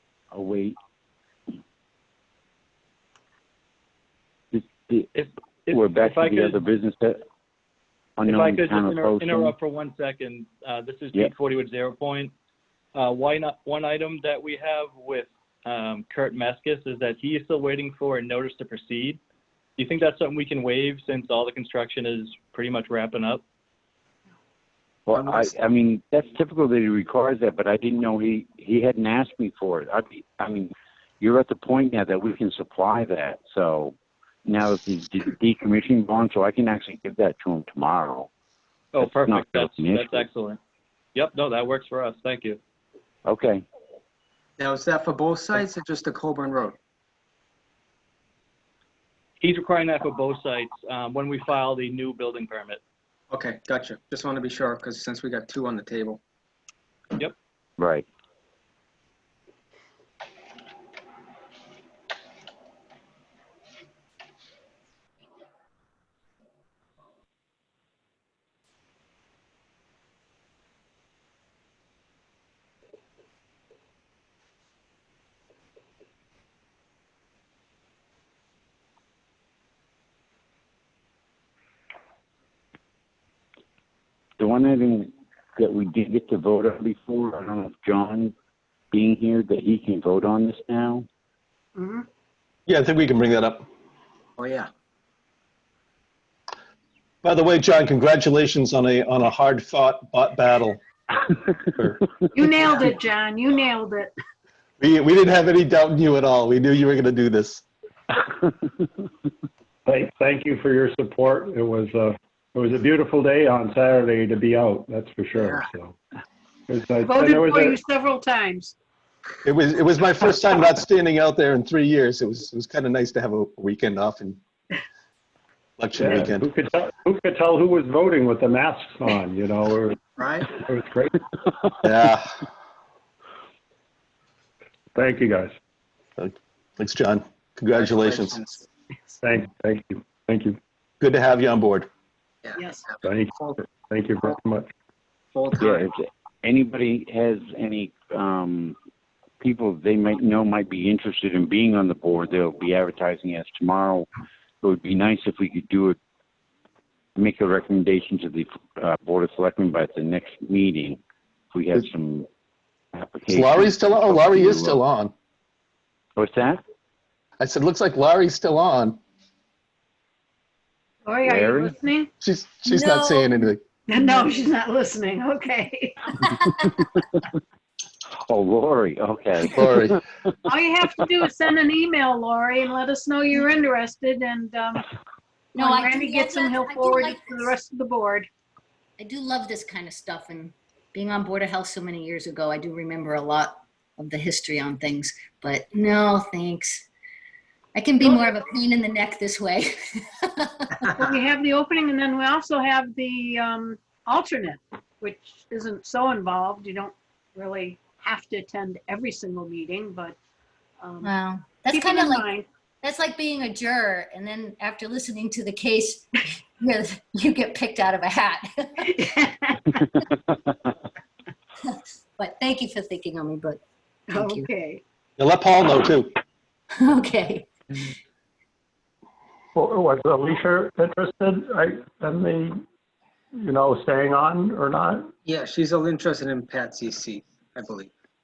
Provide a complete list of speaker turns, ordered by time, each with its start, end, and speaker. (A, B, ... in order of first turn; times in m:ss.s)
0:00.3-0:00.7 A
0:04.5-0:05.1 A
0:05.1-0:06.6 B
0:05.7-0:07.2 A
0:08.2-0:09.5 A
0:08.2-0:12.3 B
0:13.0-0:19.2 B
0:19.8-0:23.4 B
0:25.1-0:38.3 A
0:25.1-0:25.5 C
0:38.9-0:40.6 B
0:39.0-0:40.2 A
0:41.2-0:42.6 B
0:43.3-0:43.6 A
0:44.6-0:46.8 C
0:49.4-0:52.8 B
0:53.3-0:56.2 C
0:57.8-0:58.0 A
1:24.4-1:28.3 A
1:28.9-1:31.1 A
1:31.8-1:32.1 D
1:32.7-1:33.6 E
1:34.4-1:34.7 C
1:37.2-1:40.8 E
1:41.8-1:42.0 E
1:42.3-1:44.1 D
1:44.8-1:47.6 E
1:49.8-1:56.0 F
1:55.4-1:55.7 C
1:56.7-1:57.8 F
1:57.0-1:58.8 D
1:59.4-2:04.4 E
2:05.8-2:06.5 E
2:06.0-2:11.2 F
2:10.2-2:10.5 C
2:11.8-2:12.4 E
2:14.9-2:15.5 F
2:16.2-2:18.4 E
2:17.7-2:18.7 C
2:19.2-2:20.6 F
2:21.0-2:21.9 E
2:22.4-2:23.6 C
2:22.6-2:22.8 D
2:23.0-2:24.7 F
2:25.3-2:25.9 C
2:25.6-2:28.8 A
2:29.4-2:34.1 A
2:34.6-2:36.0 A
2:37.2-2:41.0 A
2:41.5-2:42.3 A
2:42.9-2:44.8 A
2:43.3-2:45.1 E
2:46.2-2:46.6 A
2:47.4-2:49.0 E
2:51.0-2:52.1 D
2:51.2-2:51.8 A
2:52.2-2:53.6 E
2:52.7-2:53.5 G
2:53.9-2:56.1 D
2:54.0-2:54.3 G
2:56.4-2:57.2 A
2:58.3-2:59.8 A
2:59.5-3:00.0 E
3:00.4-3:04.8 D
3:05.6-3:07.5 G
3:05.6-3:08.3 D
3:09.0-3:16.9 G
3:17.8-3:20.8 G
3:18.0-3:18.4 D
3:21.0-3:30.2 D
3:30.8-3:31.1 D
3:31.0-3:32.3 G
3:31.7-3:32.5 D
3:32.8-3:38.9 G
3:38.8-3:39.9 D
3:41.6-3:43.6 G
3:44.1-3:44.8 D
3:44.1-3:44.5 G
3:45.2-3:46.2 E
3:46.8-3:47.9 G
3:49.5-3:52.6 F
3:53.3-3:55.1 F
3:55.2-3:57.9 C